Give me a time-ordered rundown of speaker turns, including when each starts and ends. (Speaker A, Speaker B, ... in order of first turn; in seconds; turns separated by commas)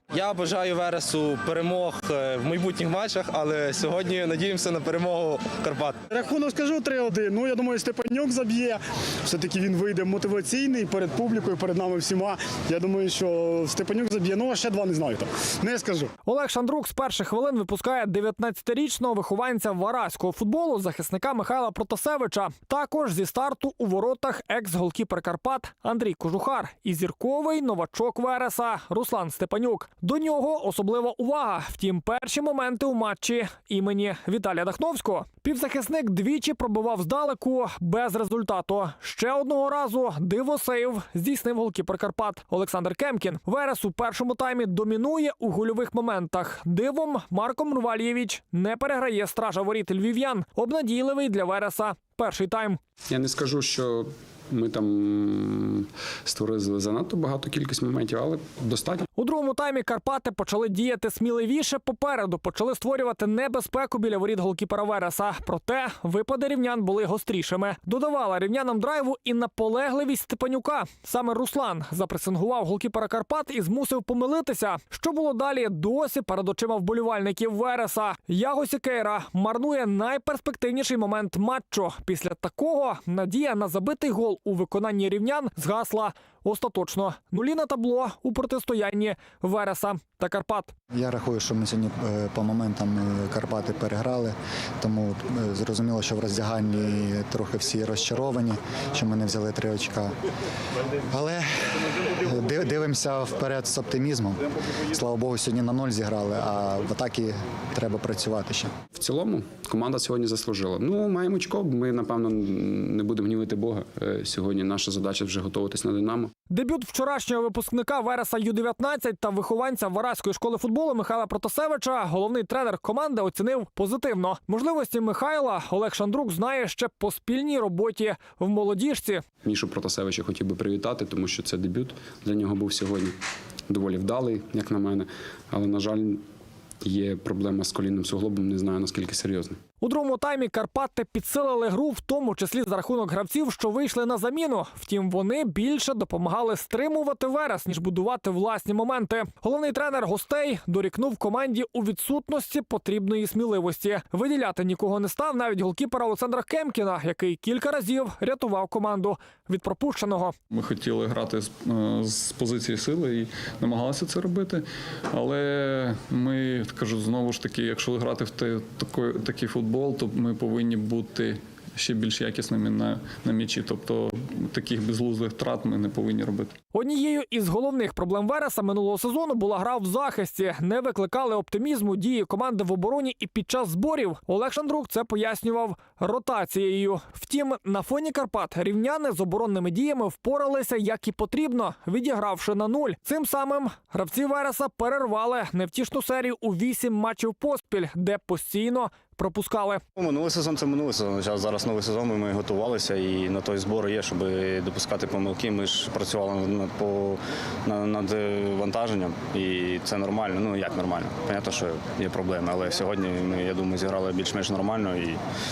Speaker A: 0.2-5.9, Speaker B: 6.1-16.1, Speaker C: 16.2-52.8, Speaker D: 53.1-59.1, Speaker C: 59.2-90.7, Speaker E: 90.9-100.1, Speaker E: 101.1-101.5, Speaker E: 102.1-108.8, Speaker D: 109.0-116.3, Speaker C: 116.5-129.2, Speaker D: 129.4-133.2, Speaker D: 133.7-136.2, Speaker D: 136.8-139.6, Speaker C: 139.8-160.3, Speaker F: 160.5-176.5, Speaker C: 176.7-199.8, Speaker G: 200.0-215.2